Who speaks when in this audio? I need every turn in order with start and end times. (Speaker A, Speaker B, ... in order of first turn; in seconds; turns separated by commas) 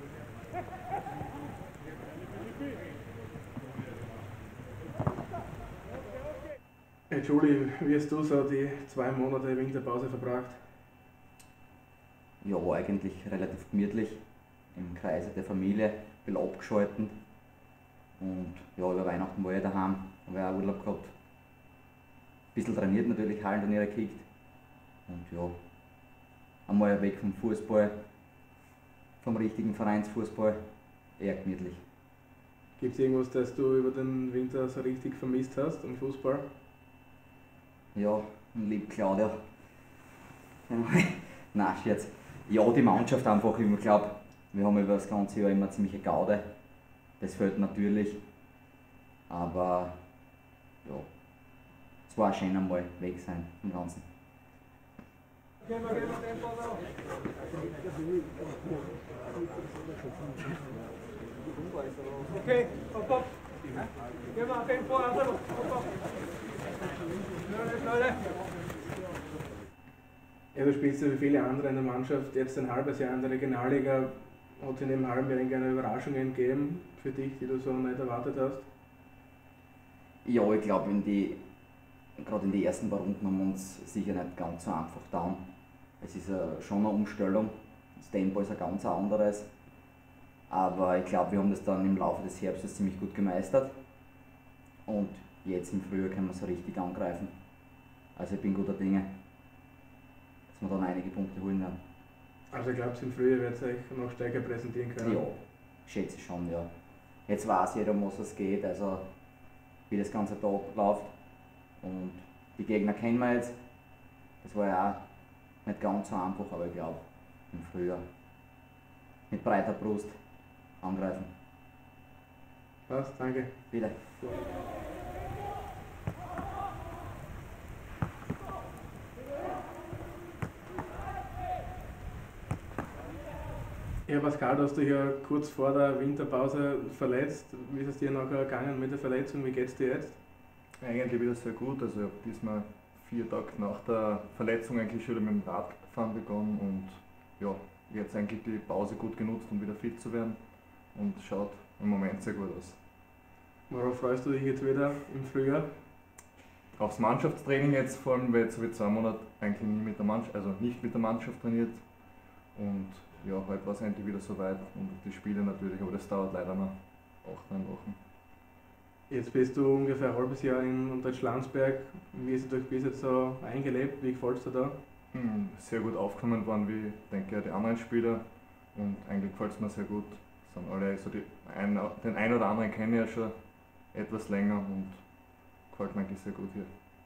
Speaker A: 7.1-10.6, Speaker B: 12.4-17.2, Speaker B: 18.2-21.1, Speaker B: 22.5-24.3, Speaker B: 25.1-25.6, Speaker B: 26.7-28.0, Speaker B: 29.2-30.6, Speaker B: 31.1-31.8, Speaker A: 32.8-36.5, Speaker B: 37.9-39.4, Speaker B: 40.7-48.2, Speaker B: 49.3-50.1, Speaker B: 50.8-54.1, Speaker A: 70.5-78.7, Speaker B: 80.2-81.4, Speaker B: 82.2-85.4, Speaker B: 86.0-89.5, Speaker B: 90.5-93.8, Speaker B: 94.9-97.3, Speaker B: 98.1-99.1, Speaker B: 100.5-101.8, Speaker A: 102.5-105.3, Speaker B: 105.0-106.7, Speaker B: 107.2-109.1, Speaker B: 109.9-111.2, Speaker B: 111.8-113.6, Speaker B: 114.4-115.0, Speaker B: 115.6-118.0, Speaker B: 119.3-120.2, Speaker B: 120.8-121.3, Speaker A: 122.9-123.6, Speaker B: 123.7-124.0, Speaker A: 134.1-140.2, Speaker C: 140.8-152.8, Speaker A: 153.7-155.8, Speaker C: 156.7-168.0, Speaker A: 169.1-174.8, Speaker C: 175.1-186.7